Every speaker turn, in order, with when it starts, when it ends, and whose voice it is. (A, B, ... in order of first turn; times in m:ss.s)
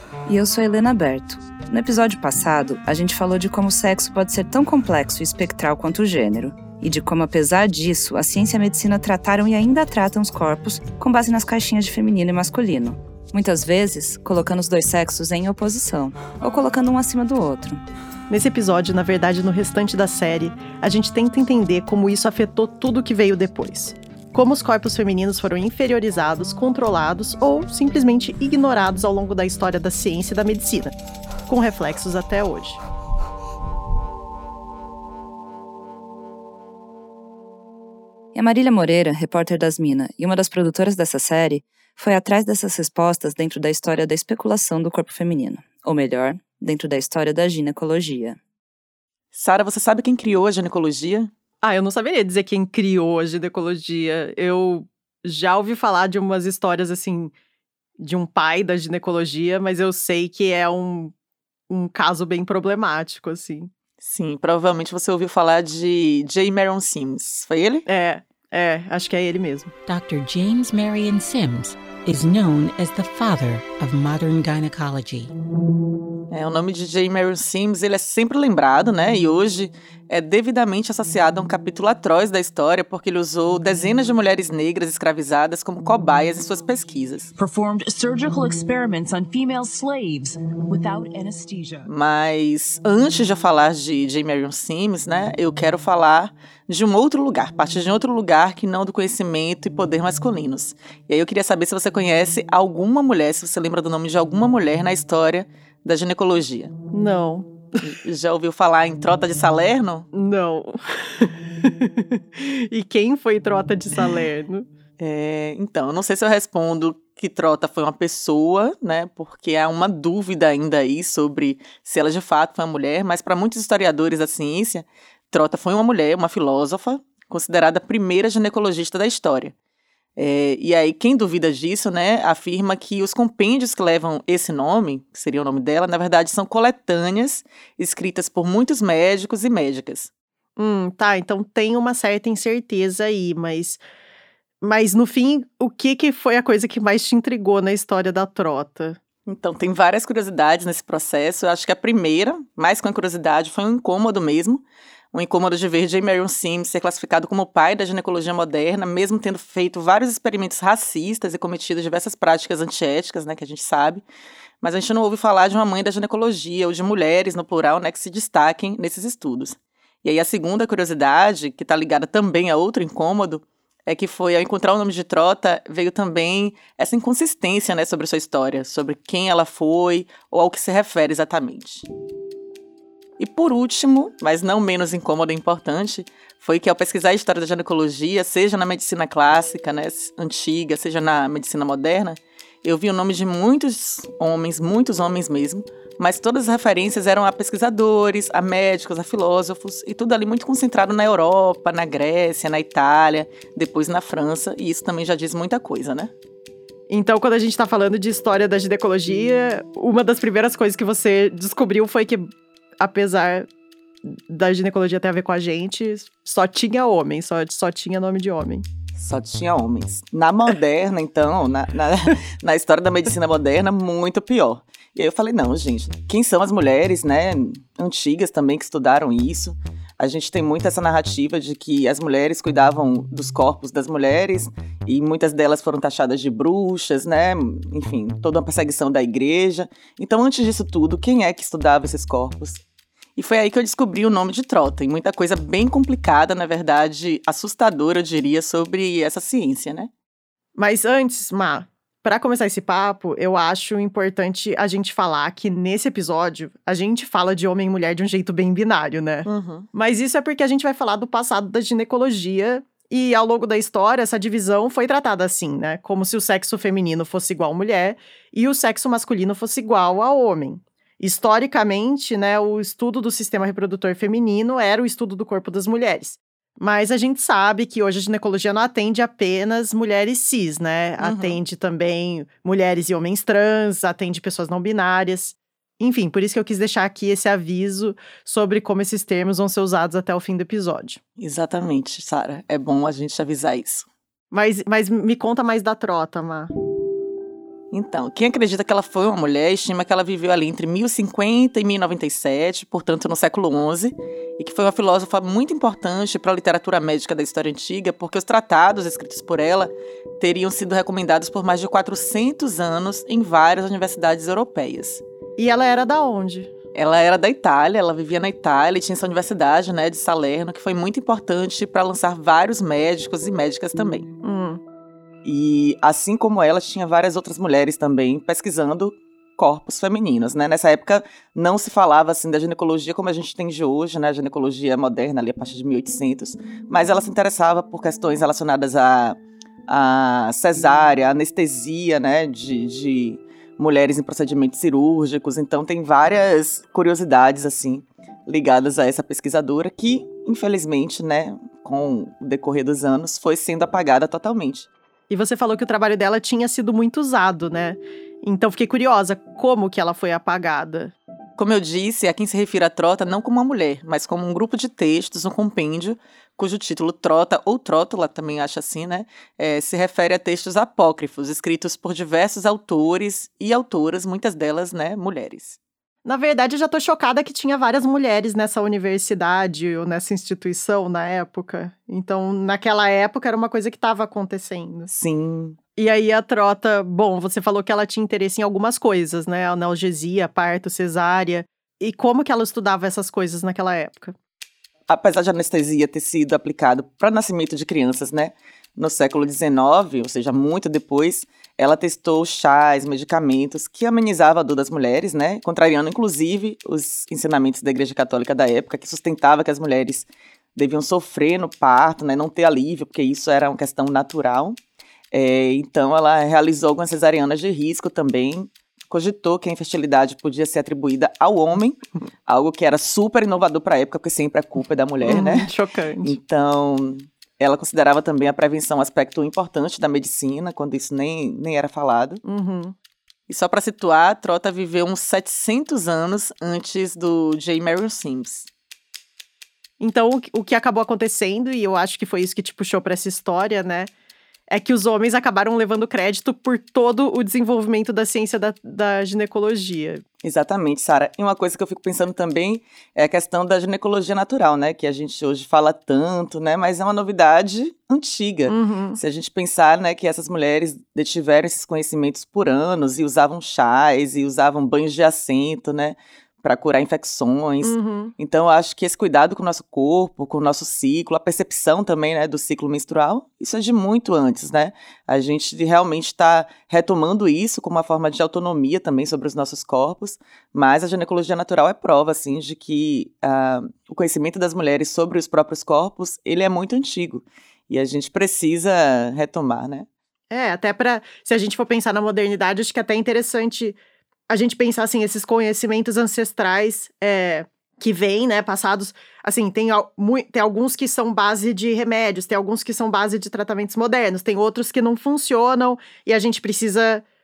0:00.3-0:17.8 A
0:18.3-0:31.0 B
0:31.5-0:32.8 B
0:38.3-0:48.4 A
0:49.3-0:51.3 C
0:51.6-0:57.3 B
0:58.0-1:01.1 B
1:01.7-1:03.7 B
1:04.0-1:07.9 C
1:07.9-1:09.7 B
1:09.9-1:15.3 D
1:16.3-1:27.3 C
1:27.4-1:31.9 E
1:31.9-1:46.7 C
1:46.9-1:47.5 B
1:47.8-1:50.1 C
1:50.1-1:54.7 B
1:55.0-2:09.6 C
2:10.2-2:20.1 C
2:20.6-2:23.8 B
2:24.6-2:29.0 B
2:29.3-2:44.0 C
2:44.6-3:01.9 C
3:03.2-3:26.1 C
3:26.9-3:33.5 B
3:34.0-3:38.7 B
3:39.0-4:02.6 C
4:03.2-4:09.9 C
4:10.6-4:51.0 B
4:19.2-4:19.7 C
4:41.0-4:41.4 C
4:51.2-4:53.9 C
4:54.3-4:56.5 B
4:57.7-5:15.0 C
5:15.4-5:16.5 B
5:16.7-5:24.1 C
5:24.2-5:24.6 B
5:25.2-5:39.2 C
5:39.7-5:54.7 C
5:55.1-6:00.9 B
6:01.4-6:15.6 C
6:16.0-6:24.9 B
6:24.9-6:25.6 C
6:25.8-6:34.2 B
6:34.9-6:54.6 C
6:55.1-7:05.5 C
7:05.0-7:06.2 B
7:06.0-7:12.2 C
7:12.2-7:12.8 B
7:13.3-7:18.5 C
7:19.8-7:23.9 B
7:24.5-7:30.0 B
7:30.2-8:09.9 C
7:38.5-7:39.0 B
7:47.6-7:48.1 B
8:10.3-8:13.8 B
8:14.3-8:27.0 B